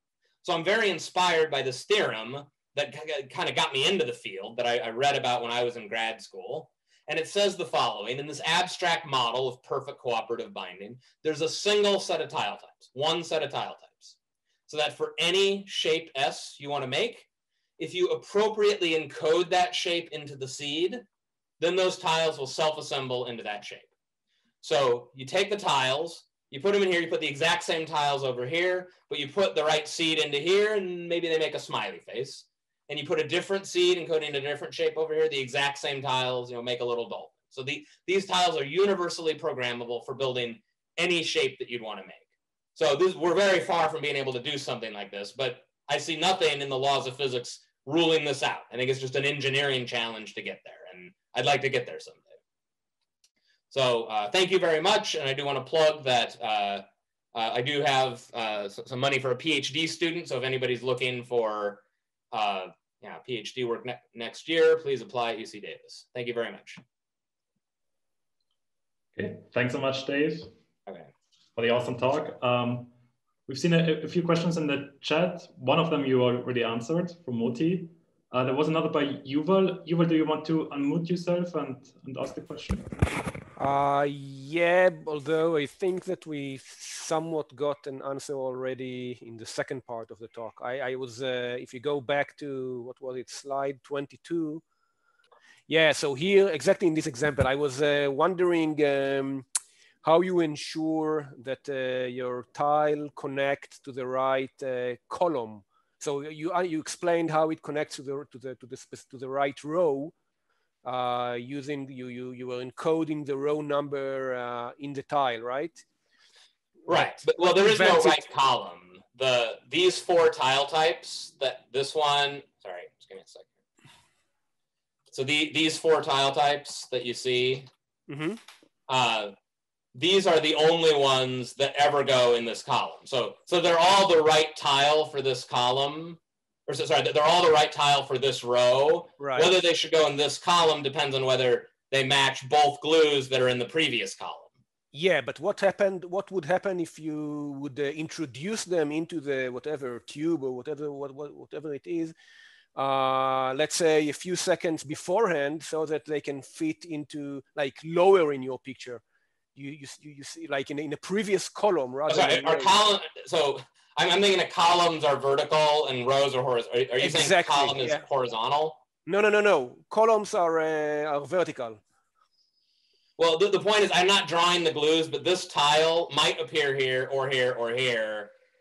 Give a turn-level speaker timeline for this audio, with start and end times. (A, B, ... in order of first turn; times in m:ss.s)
0:00.4-0:14.2 A
0:14.7-0:17.3 A
0:17.8-0:21.0 A
0:21.6-0:23.9 A
0:24.6-0:52.4 A
0:53.7-1:06.8 A
1:09.1-1:10.5 B
1:11.6-1:12.9 B
1:13.5-1:23.0 B
1:23.6-1:34.6 C
1:35.7-1:39.5 C
1:40.0-1:50.1 C
1:50.8-1:55.8 C
1:56.9-2:03.5 A
1:56.9-1:58.2 C
2:05.1-2:07.7 A
2:08.1-2:08.4 C
2:08.9-2:09.3 A
2:10.0-2:24.5 A
2:19.2-2:19.5 C
2:24.9-2:32.1 C
2:32.8-2:39.0 C
2:39.6-2:42.8 C
2:42.1-2:48.8 A
2:47.0-2:48.0 C
2:49.1-2:51.8 C
2:53.2-2:58.3 A